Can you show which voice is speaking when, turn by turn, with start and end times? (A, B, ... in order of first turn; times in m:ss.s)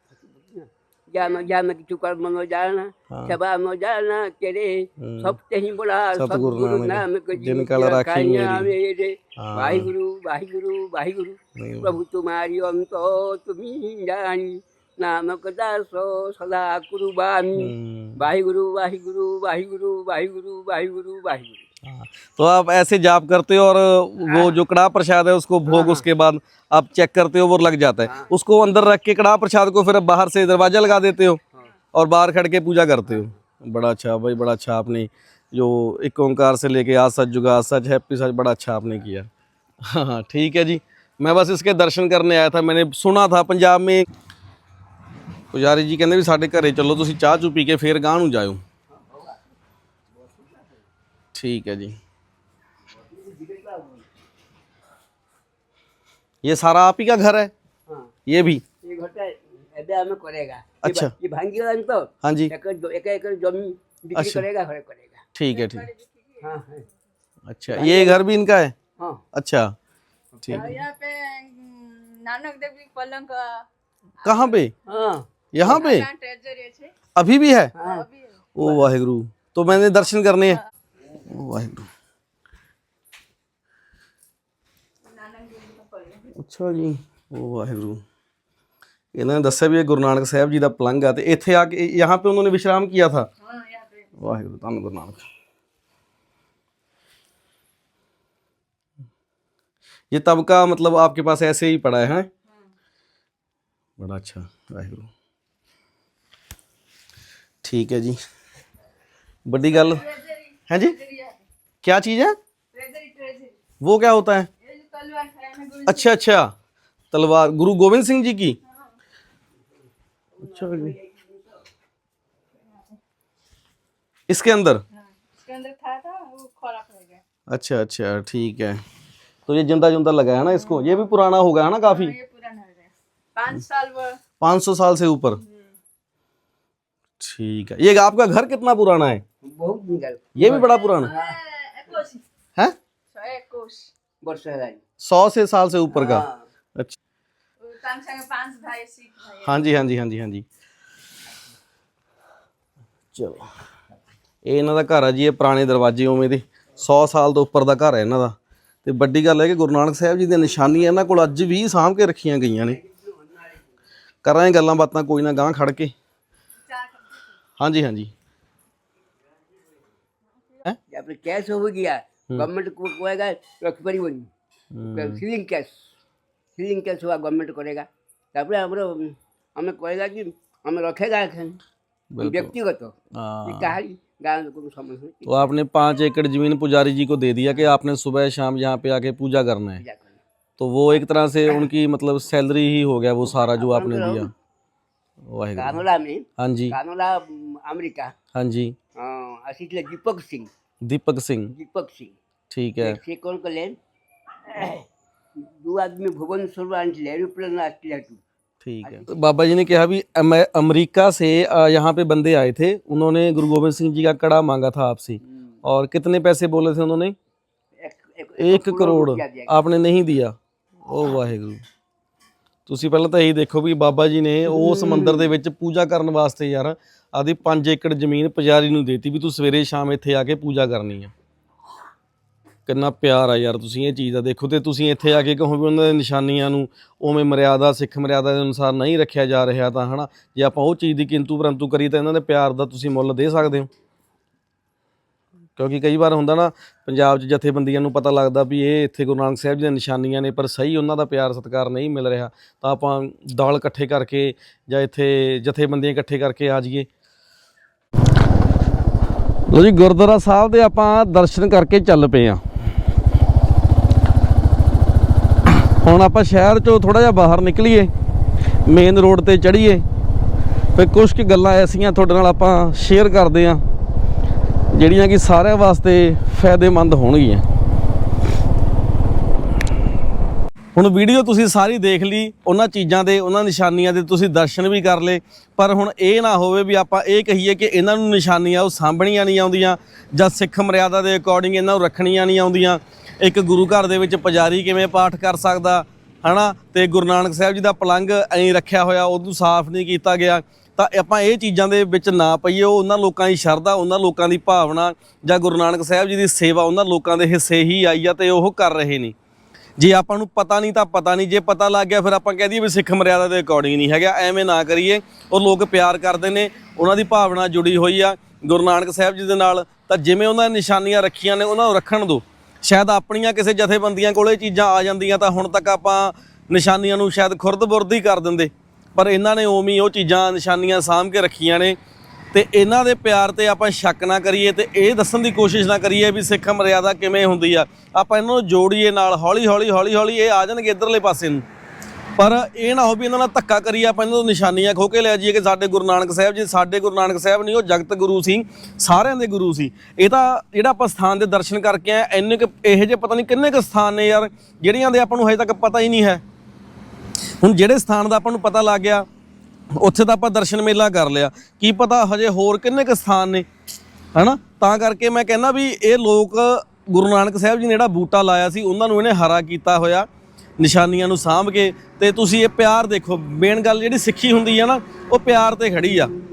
0:00.3-0:21.6 A
0:03.1-0:03.4 B
0:05.0-0:05.4 B
0:06.1-0:08.7 B
0:09.4-0:09.9 B
0:11.6-0:11.9 B
0:17.6-0:18.2 B
0:21.8-0:31.4 B
0:24.2-0:24.6 A
0:25.7-0:26.0 A
0:28.0-0:28.3 A
0:31.9-0:39.3 B
0:39.8-0:44.0 B
0:45.5-0:48.6 B
0:48.9-0:49.4 A
0:50.1-0:50.8 A
0:51.3-0:52.0 B
0:52.9-0:54.1 A
0:56.4-0:57.5 B
0:57.9-0:58.1 A
0:58.2-0:58.6 B
0:58.8-1:05.2 A
1:00.8-1:01.1 B
1:02.2-1:02.5 B
1:04.1-1:04.4 B
1:05.3-1:05.9 B
1:05.5-1:06.5 C
1:06.4-1:06.8 A
1:07.5-1:08.7 B
1:07.7-1:08.2 A
1:09.0-1:09.2 A
1:09.3-1:09.7 B
1:10.4-1:10.8 A
1:10.5-1:13.7 C
1:14.2-1:14.6 C
1:14.2-1:14.7 B
1:14.8-1:15.9 A
1:15.5-1:16.1 B
1:15.6-1:16.9 C
1:17.1-1:17.7 B
1:17.7-1:18.0 A
1:17.8-1:18.4 C
1:18.5-1:20.6 B
1:21.2-1:21.9 B
1:25.0-1:26.3 C
1:26.3-1:28.0 B
1:29.1-1:33.3 B
1:33.4-1:34.2 C
1:34.2-1:35.2 B
1:40.1-1:42.3 B
1:44.0-1:45.1 B
1:47.6-1:48.2 B
1:49.4-1:50.0 B
1:49.7-1:51.4 C
1:50.7-1:51.0 B
1:51.8-1:52.4 B
1:52.7-1:53.6 C
1:53.8-1:54.5 B
1:54.6-1:56.1 C
1:55.8-1:56.5 B
1:57.1-1:58.6 B
2:00.4-2:01.6 A
2:00.4-2:00.9 B
2:04.3-2:04.8 B
2:05.3-2:07.2 C
2:07.5-2:08.8 B
2:09.5-2:12.1 B
2:11.8-2:14.2 C
2:14.4-2:15.4 B
2:17.2-2:19.2 B
2:19.4-2:21.4 A
2:20.4-2:21.1 B
2:20.7-2:22.2 C
2:23.1-2:23.9 C
2:24.2-2:24.8 A
2:25.0-2:27.0 B
2:25.9-2:26.5 A
2:27.6-2:29.7 C
2:29.4-2:30.4 B
2:33.1-2:33.5 B
2:34.4-2:42.8 B
2:42.6-2:43.7 A
2:44.2-2:45.9 B
2:46.7-2:47.2 C
2:47.6-2:48.1 B
2:50.9-2:54.3 A
2:54.7-2:55.2 B
2:54.9-2:55.8 A
2:56.6-3:01.6 A
3:02.1-3:02.5 B
3:02.2-3:05.5 A
3:03.1-3:03.8 B
3:05.2-3:09.8 B
3:09.8-3:10.2 A
3:10.6-3:14.3 B
3:13.3-3:14.3 A
3:15.3-3:15.8 B
3:15.6-3:18.1 A
3:16.4-3:16.8 B
3:18.3-3:18.8 B
3:18.9-3:20.5 A
3:20.8-3:21.5 B
3:21.5-3:22.2 A
3:22.5-3:23.0 B
3:22.8-3:23.8 A
3:24.4-3:28.2 A
3:28.6-3:37.2 B
3:28.8-3:29.1 A
3:37.8-3:39.5 A
3:38.4-3:41.6 B
3:42.7-3:51.1 B
3:44.5-3:45.3 A
3:52.6-4:03.7 B
4:05.6-4:16.9 B
4:19.5-4:22.4 B
4:25.6-4:27.9 B
4:28.6-4:29.8 B
4:30.8-4:33.6 B
4:34.7-4:37.4 B
4:40.7-5:09.1 B
5:09.8-5:31.8 B
5:32.3-5:41.4 B
5:42.2-5:56.2 B
5:57.4-5:59.0 B
5:59.7-6:03.5 B
6:04.1-6:10.1 B
6:10.6-6:16.1 B